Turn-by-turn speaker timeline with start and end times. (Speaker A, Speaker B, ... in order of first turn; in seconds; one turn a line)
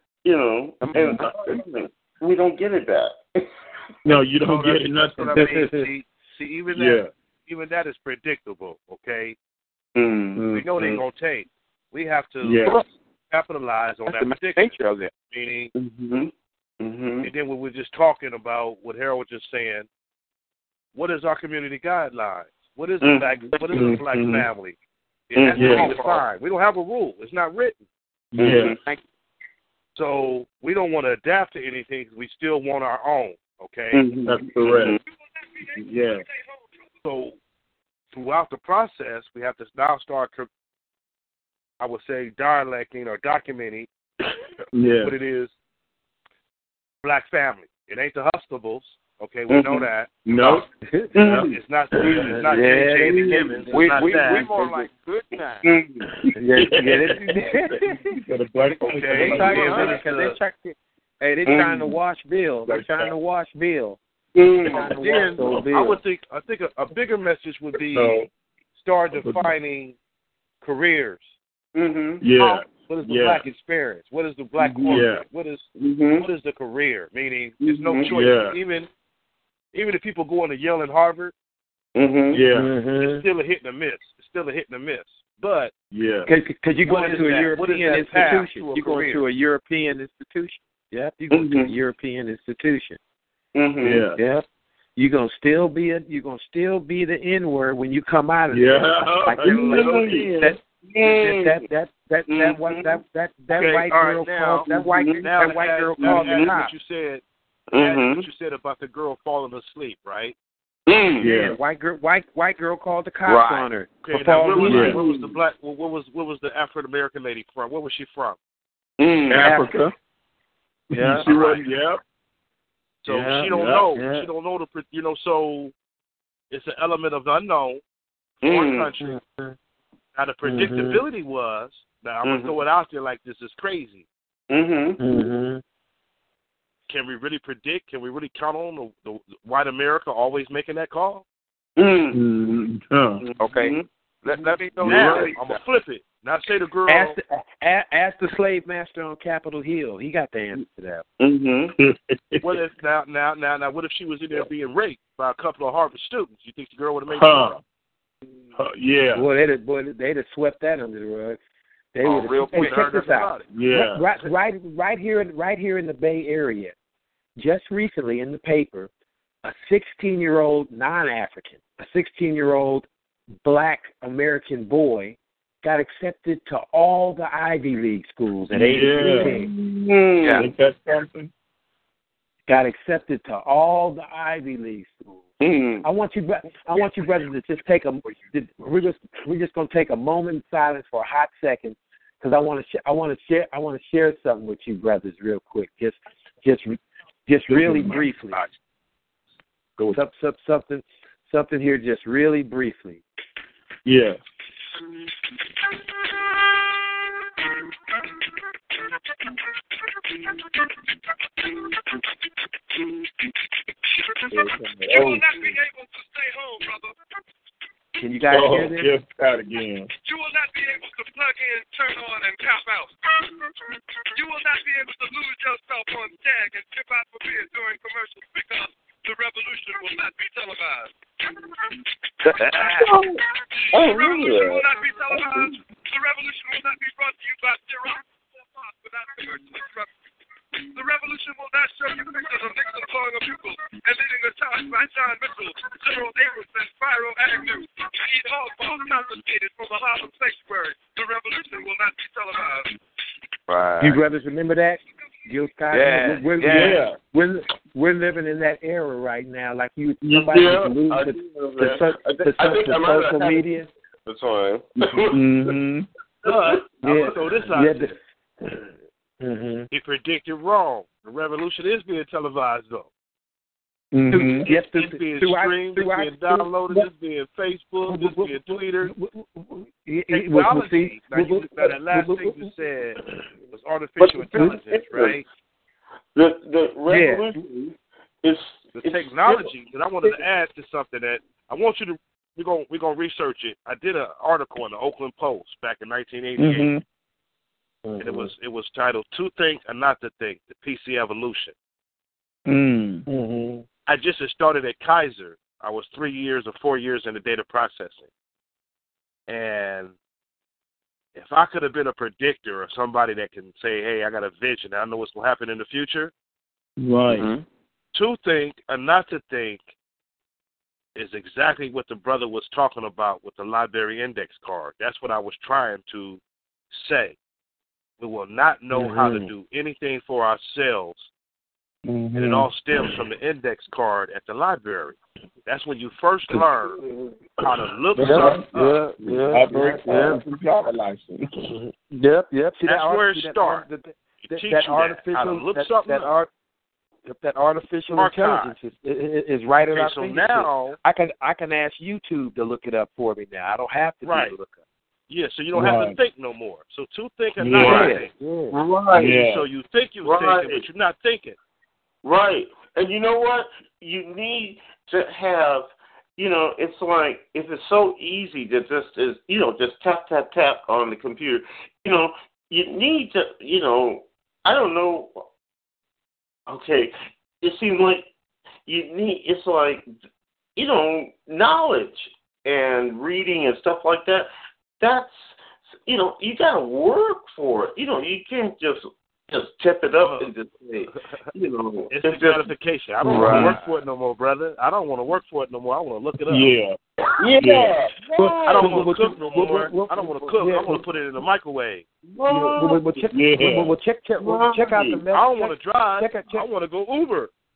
Speaker A: 0.2-3.5
Speaker B: 0.9-1.4
Speaker B: 4.0-5.5
Speaker C: 4.4-9.4
Speaker D: 5.3-5.9
Speaker B: 6.7-7.1
Speaker A: 9.9-10.5
Speaker B: 10.4-10.9
Speaker C: 10.5-15.7
Speaker B: 12.4-12.8
Speaker E: 14.1-15.1
Speaker A: 15.8-17.3
Speaker C: 17.2-19.9
Speaker C: 20.9-24.8
Speaker A: 23.0-24.0
Speaker B: 23.7-24.5
Speaker C: 25.3-27.8
Speaker A: 25.4-26.1
Speaker B: 25.6-25.9
Speaker B: 28.3-28.8
Speaker A: 28.4-28.8
Speaker E: 28.7-29.0
Speaker C: 29.9-34.0
Speaker A: 33.9-35.0
Speaker B: 34.3-35.0
Speaker B: 35.9-36.2
Speaker C: 37.0-37.4
Speaker C: 38.1-40.5
Speaker C: 41.8-43.9
Speaker B: 44.7-45.1
Speaker C: 45.0-45.5
Speaker C: 47.0-50.6
Speaker A: 49.5-49.9
Speaker B: 50.3-50.7
Speaker D: 50.9-51.1
Speaker A: 51.2-51.5
Speaker B: 51.2-51.5
Speaker C: 51.2-54.5
Speaker B: 52.0-52.5
Speaker D: 52.3-53.7
Speaker A: 53.1-53.4
Speaker E: 53.7-55.7
Speaker A: 55.6-56.1
Speaker B: 56.3-60.0
Speaker D: 56.3-58.2
Speaker C: 58.8-60.4
Speaker D: 59.1-64.0
Speaker A: 61.5-61.9
Speaker B: 62.7-63.1
Speaker A: 64.3-65.6
Speaker D: 64.7-66.0
Speaker C: 64.8-68.2
Speaker B: 67.9-68.2
Speaker C: 68.8-70.0
Speaker B: 69.2-69.5
Speaker C: 70.6-71.3
Speaker A: 71.8-72.3
Speaker B: 72.2-73.4
Speaker C: 72.4-75.7
Speaker B: 74.6-75.2
Speaker A: 75.8-76.3
Speaker C: 76.2-78.9
Speaker A: 77.9-78.1
Speaker B: 77.9-78.6
Speaker C: 79.7-81.3
Speaker A: 82.0-82.5
Speaker B: 82.3-82.7
Speaker D: 82.5-83.2
Speaker C: 83.0-85.7
Speaker B: 85.9-86.3
Speaker D: 86.3-93.0
Speaker C: 86.9-89.2
Speaker A: 91.3-91.7
Speaker A: 93.5-94.1
Speaker B: 93.8-94.2
Speaker D: 94.2-94.4
Speaker D: 95.0-106.7
Speaker B: 98.5-100.6
Speaker A: 99.5-100.3
Speaker A: 100.9-101.7
Speaker A: 102.3-102.9
Speaker C: 103.5-104.7
Speaker A: 104.7-105.2
Speaker C: 105.2-107.2
Speaker A: 106.1-106.5
Speaker A: 107.7-108.3
Speaker C: 107.8-110.4
Speaker A: 110.9-111.3
Speaker D: 111.2-115.0
Speaker B: 111.2-111.6
Speaker E: 113.2-113.7
Speaker C: 114.0-118.4
Speaker B: 114.6-115.0
Speaker A: 114.7-115.3
Speaker A: 119.0-119.6
Speaker B: 119.3-119.9
Speaker D: 119.4-119.8
Speaker D: 120.9-121.6
Speaker B: 120.9-122.0
Speaker C: 121.3-121.5
Speaker C: 123.0-125.7
Speaker D: 123.1-124.3
Speaker B: 123.3-123.9
Speaker C: 126.5-127.8
Speaker C: 128.4-129.2
Speaker A: 128.4-128.9
Speaker D: 129.0-129.6
Speaker C: 130.2-134.1
Speaker D: 130.4-131.0
Speaker A: 132.2-132.6
Speaker A: 134.5-135.0
Speaker D: 135.0-135.6
Speaker C: 136.9-141.2
Speaker A: 141.8-142.2
Speaker B: 142.1-143.2
Speaker A: 143.2-143.9
Speaker E: 143.4-145.6
Speaker C: 144.8-147.2
Speaker B: 144.8-145.3
Speaker D: 146.9-151.0
Speaker A: 151.2-151.8
Speaker B: 151.8-152.5
Speaker C: 152.4-157.6
Speaker B: 157.2-157.6
Speaker B: 158.6-159.3
Speaker D: 159.2-161.4
Speaker D: 161.9-166.8
Speaker C: 162.1-163.5
Speaker E: 162.1-163.0
Speaker B: 163.5-164.0
Speaker D: 167.4-168.9
Speaker D: 169.4-172.9
Speaker D: 173.4-179.5
Speaker B: 178.5-179.4
Speaker A: 179.0-180.4
Speaker B: 180.4-181.3
Speaker D: 182.5-185.2
Speaker A: 185.4-185.8
Speaker D: 185.8-198.4
Speaker B: 197.5-198.0
Speaker D: 199.9-203.0
Speaker B: 203.9-204.2
Speaker F: 210.1-210.8
Speaker F: 211.4-212.4
Speaker F: 213.1-213.3
Speaker F: 213.9-217.0
Speaker B: 214.3-215.3
Speaker D: 218.0-219.0
Speaker B: 218.3-219.9
Speaker F: 220.0-231.7
Speaker E: 232.3-232.6
Speaker D: 232.3-232.8
Speaker F: 232.4-232.9
Speaker A: 232.7-233.2
Speaker F: 233.5-239.9
Speaker A: 233.7-235.5
Speaker F: 240.6-252.8
Speaker E: 253.5-254.0
Speaker D: 253.8-263.7
Speaker E: 255.7-256.8
Speaker B: 256.4-257.0
Speaker A: 260.1-263.4
Speaker A: 264.1-265.5
Speaker B: 264.9-265.9
Speaker C: 266.2-267.9
Speaker A: 266.2-267.1
Speaker D: 266.8-268.7
Speaker D: 269.2-269.7
Speaker C: 269.7-272.9
Speaker B: 273.9-274.5
Speaker D: 274.1-276.5
Speaker C: 274.4-278.9
Speaker D: 277.9-282.5
Speaker C: 280.1-285.2
Speaker A: 284.0-285.2
Speaker A: 286.2-289.5
Speaker D: 286.9-287.3
Speaker C: 288.8-296.7
Speaker B: 296.4-296.8
Speaker D: 297.9-298.3
Speaker C: 298.0-301.6
Speaker B: 302.5-303.1
Speaker D: 303.1-303.6
Speaker C: 303.9-308.1
Speaker C: 309.3-309.9
Speaker C: 311.1-316.1
Speaker B: 316.8-317.3
Speaker E: 317.1-317.4
Speaker C: 317.9-319.7
Speaker C: 320.9-327.2
Speaker C: 328.0-331.1
Speaker D: 328.7-329.3
Speaker B: 331.9-332.9
Speaker C: 332.1-336.8
Speaker D: 336.8-337.1
Speaker C: 337.4-338.9
Speaker B: 338.0-338.5
Speaker D: 338.0-340.2
Speaker B: 339.0-341.4
Speaker D: 341.5-346.3
Speaker C: 342.6-343.7
Speaker C: 344.3-346.1
Speaker D: 347.1-354.6
Speaker C: 347.9-348.5
Speaker C: 349.7-350.8
Speaker C: 354.0-354.4
Speaker C: 355.1-358.1
Speaker B: 355.5-356.0
Speaker B: 357.4-357.9
Speaker D: 357.6-358.6
Speaker A: 358.5-359.2
Speaker B: 358.9-359.4
Speaker C: 359.1-361.4
Speaker A: 360.0-360.7
Speaker A: 362.0-375.1
Speaker A: 376.5-378.1
Speaker A: 378.7-379.8
Speaker A: 380.6-392.5
Speaker C: 390.0-390.3
Speaker C: 390.9-391.2
Speaker C: 391.9-396.5
Speaker D: 393.1-393.6
Speaker B: 393.1-393.6
Speaker B: 396.3-396.8
Speaker A: 397.2-398.9
Speaker B: 397.4-397.8
Speaker D: 398.1-400.8
Speaker C: 398.4-401.9
Speaker A: 402.1-402.9
Speaker D: 402.3-406.5
Speaker B: 403.1-403.8
Speaker A: 404.2-405.0
Speaker C: 405.1-407.3